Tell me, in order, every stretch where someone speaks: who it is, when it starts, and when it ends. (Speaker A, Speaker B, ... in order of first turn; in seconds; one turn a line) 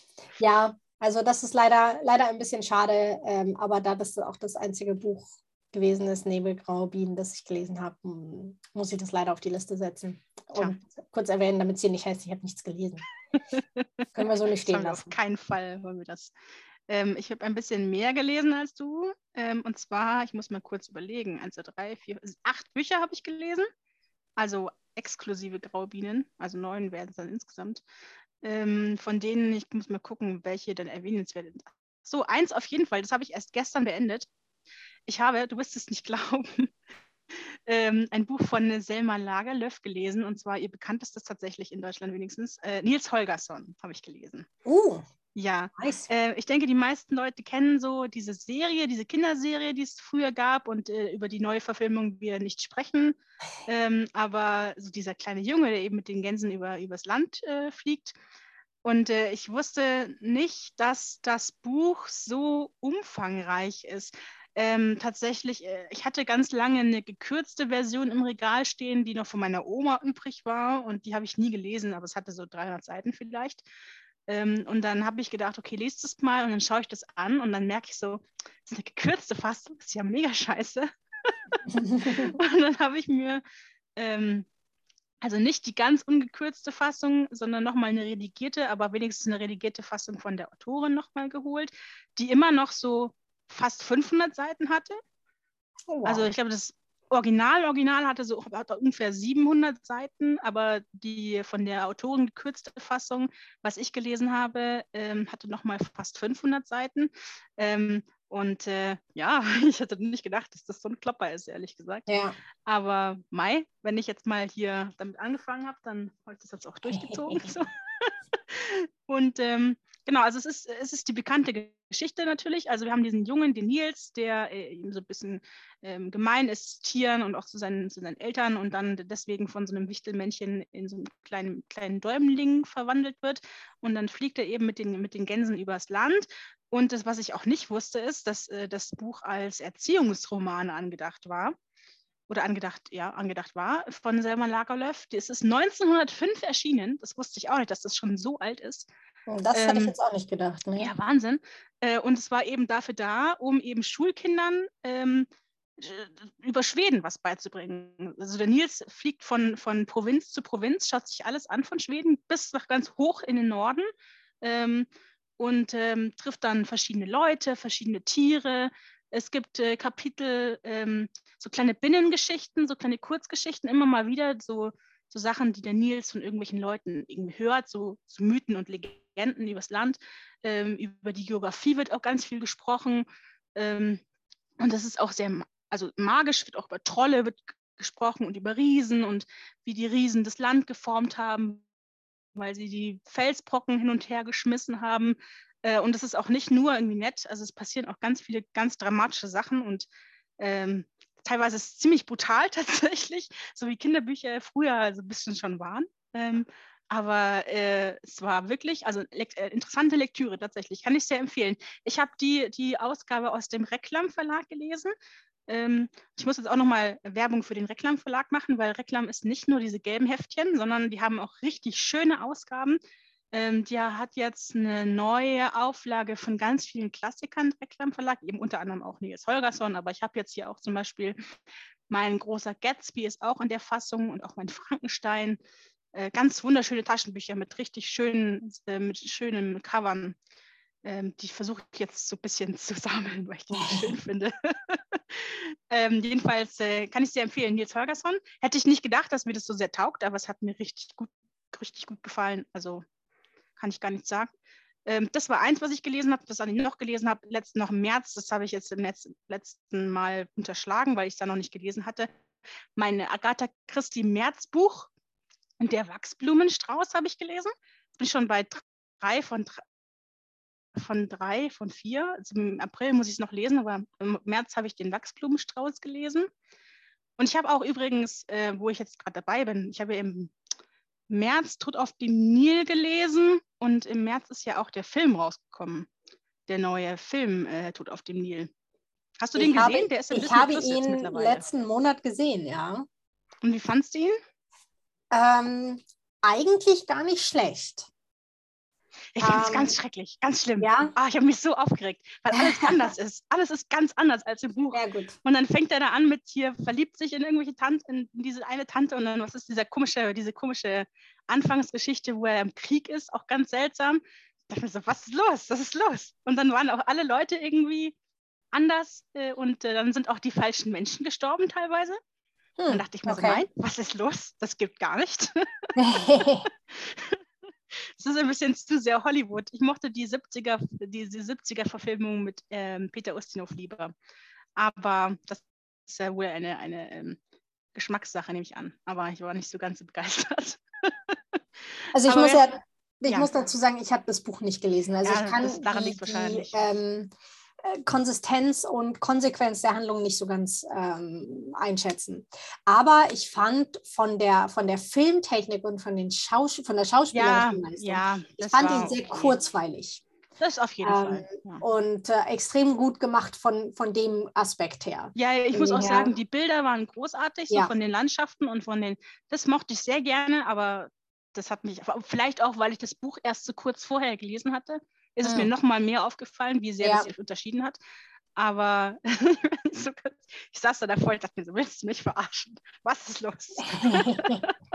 Speaker A: 0.4-13.1
Speaker B: 13.5-14.1
Speaker A: 14.2-15.1
Speaker B: 14.6-16.3
Speaker B: 16.9-23.7
Speaker B: 24.4-27.8
Speaker B: 28.4-34.3
Speaker B: 35.1-36.7
Speaker B: 37.3-44.5
Speaker A: 44.7-45.0
Speaker B: 45.4-58.2
Speaker A: 45.8-46.1
Speaker B: 58.8-73.6
Speaker B: 74.3-83.4
Speaker A: 81.7-82.3
Speaker B: 84.0-84.5
Speaker B: 85.2-95.0
Speaker A: 95.9-96.3
Speaker B: 96.0-112.1
Speaker A: 112.1-112.3
Speaker B: 112.7-141.6
Speaker A: 116.9-117.5
Speaker B: 142.3-148.9
Speaker A: 149.3-150.9
Speaker B: 149.5-149.9
Speaker B: 150.8-155.3
Speaker B: 155.8-163.9
Speaker B: 164.4-164.9
Speaker B: 165.4-184.0
Speaker B: 184.6-191.7
Speaker B: 192.4-199.9
Speaker B: 200.4-214.9
Speaker B: 215.5-222.8
Speaker B: 223.3-231.2
Speaker B: 231.9-235.4
Speaker B: 235.9-240.2
Speaker B: 240.8-252.8
Speaker A: 243.5-243.9
Speaker B: 253.6-254.3
Speaker B: 254.9-262.1
Speaker B: 262.8-264.9
Speaker B: 265.6-269.6
Speaker B: 270.8-276.3
Speaker B: 277.2-280.3
Speaker B: 281.1-285.9
Speaker B: 286.5-288.5
Speaker B: 289.2-291.5
Speaker A: 289.4-292.9
Speaker B: 293.4-294.2
Speaker A: 295.1-297.9
Speaker B: 299.2-317.9
Speaker A: 299.2-299.7
Speaker A: 300.6-300.9
Speaker A: 302.3-302.7
Speaker A: 304.7-305.1
Speaker B: 318.5-322.0
Speaker A: 322.6-323.4
Speaker B: 322.7-325.3
Speaker A: 325.8-326.5
Speaker B: 326.7-327.2
Speaker B: 328.0-333.9
Speaker B: 334.6-337.2
Speaker B: 337.8-341.4
Speaker A: 341.9-347.1
Speaker B: 342.0-342.4
Speaker B: 343.1-343.4
Speaker B: 345.0-346.6
Speaker A: 347.6-360.0
Speaker B: 357.1-359.4
Speaker B: 360.4-361.6
Speaker A: 360.8-366.1
Speaker B: 365.1-377.8
Speaker A: 375.2-375.5
Speaker A: 376.8-377.1
Speaker B: 378.4-384.5
Speaker A: 383.6-384.4